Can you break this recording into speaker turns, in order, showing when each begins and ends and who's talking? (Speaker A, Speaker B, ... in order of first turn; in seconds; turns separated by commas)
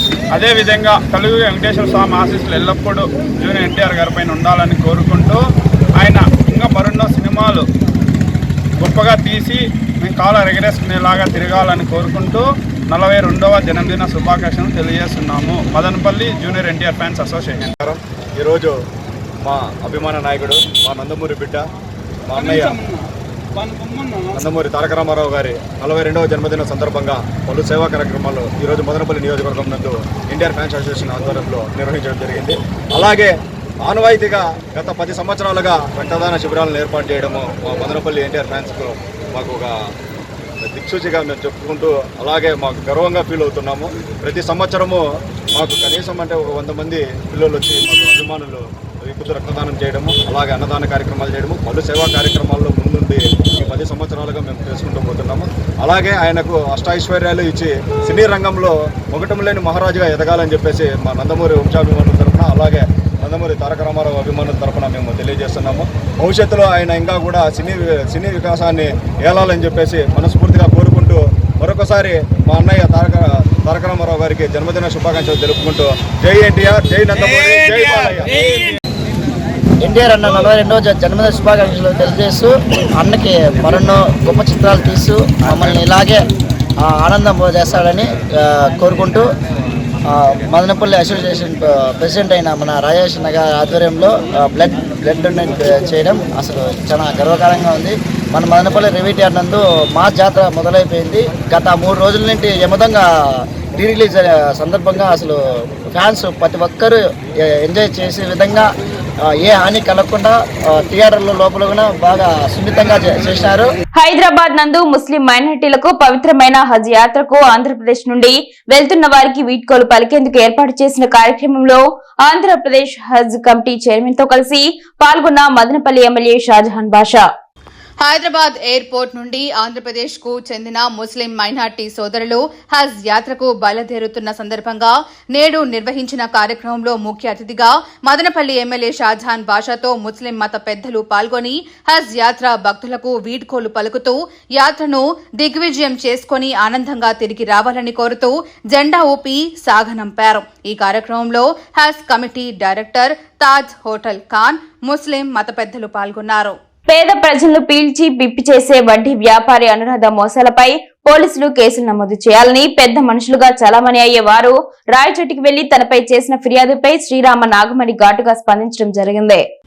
Speaker A: 0.3-5.4, Speaker A: 6.0-7.7, Speaker A: 8.8-17.7, Speaker B: 17.8-18.8, Speaker B: 19.4-21.6, Speaker B: 22.3-22.7, Speaker A: 22.3-23.0, Speaker A: 23.6-24.4, Speaker B: 24.3-39.7, Speaker B: 40.6-45.0, Speaker B: 45.5-78.4, Speaker C: 79.8-86.2, Speaker C: 86.8-89.2, Speaker C: 90.1-103.0, Speaker C: 103.8-105.4, Speaker C: 105.9-107.0, Speaker C: 107.6-108.7, Speaker C: 109.3-113.7, Speaker D: 114.0-127.3, Speaker E: 128.0-156.6, Speaker D: 156.9-169.4